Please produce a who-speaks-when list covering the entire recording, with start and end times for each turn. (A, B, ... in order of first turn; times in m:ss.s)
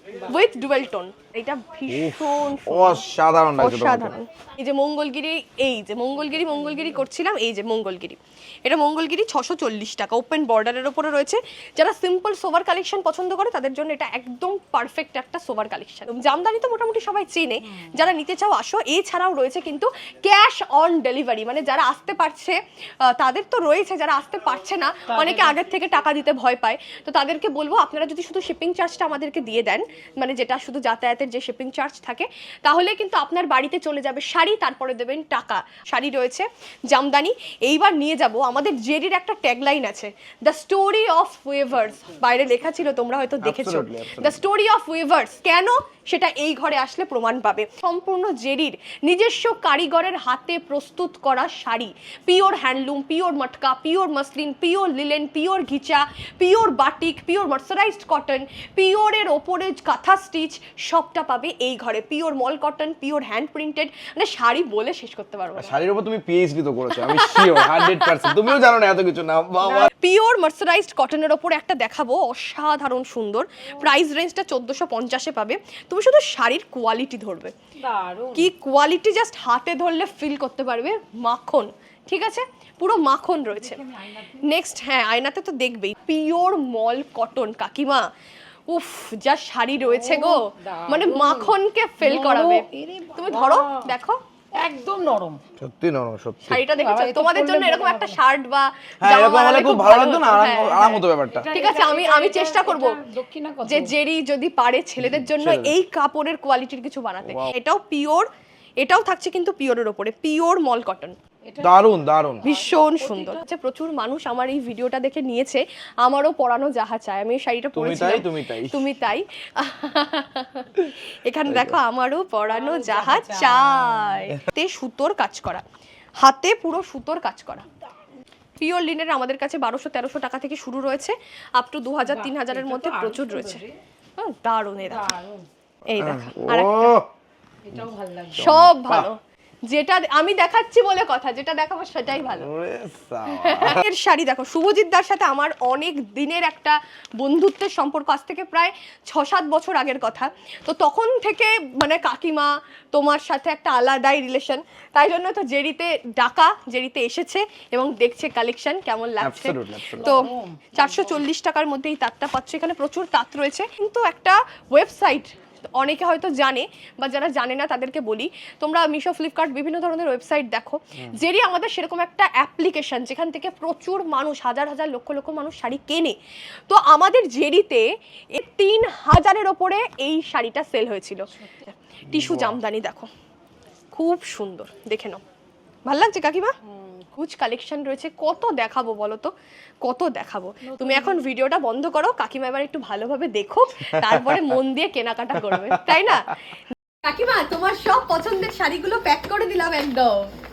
0:00.3-0:03.0 A
0:01.9-0:04.2 B
0:03.6-1:05.8 A
0:06.4-0:06.8 C
0:25.1-0:25.6 C
0:43.4-0:44.4 B
1:05.6-1:09.9 B
1:06.9-1:08.4 A
1:09.9-1:17.5 A
1:17.8-1:18.5 C
1:18.4-1:23.8 A
1:23.5-1:24.5 C
1:24.4-1:28.0 A
1:28.7-1:32.6 A
1:29.8-1:33.9 C
1:33.2-1:34.2 A
1:34.6-1:35.4 C
1:35.6-1:36.7 B
1:36.4-1:43.0 A
1:36.7-1:38.2 C
1:39.0-1:41.5 B
1:41.3-1:43.9 C
1:43.6-1:48.3 A
1:45.0-1:45.7 B
1:47.2-1:47.5 B
1:48.8-1:51.2 A
1:51.5-1:53.4 C
1:51.6-1:52.4 B
1:52.4-2:05.6 A
1:57.7-1:58.8 B
2:01.5-2:01.8 B
2:02.5-2:04.1 C
2:06.2-2:07.7 A
2:08.6-2:13.6 A
2:12.0-2:13.8 C
2:14.2-2:15.1 A
2:14.8-2:15.5 C
2:15.9-2:17.0 A
2:16.0-2:17.1 B
2:17.7-2:18.6 C
2:18.4-2:19.1 B
2:18.4-2:19.2 A
2:19.7-2:22.5 A
2:22.3-2:23.8 B
2:23.3-2:56.2 A
2:39.2-2:40.2 B
2:40.0-2:41.2 C
2:56.7-3:03.1 A
3:02.1-3:02.6 B
3:03.9-3:05.2 A
3:05.9-3:06.5 A
3:06.7-3:07.0 C
3:07.2-3:09.3 A
3:09.8-3:16.4 A
3:10.6-3:11.2 C
3:14.0-3:14.6 B
3:15.4-3:16.3 B
3:17.0-3:20.3 A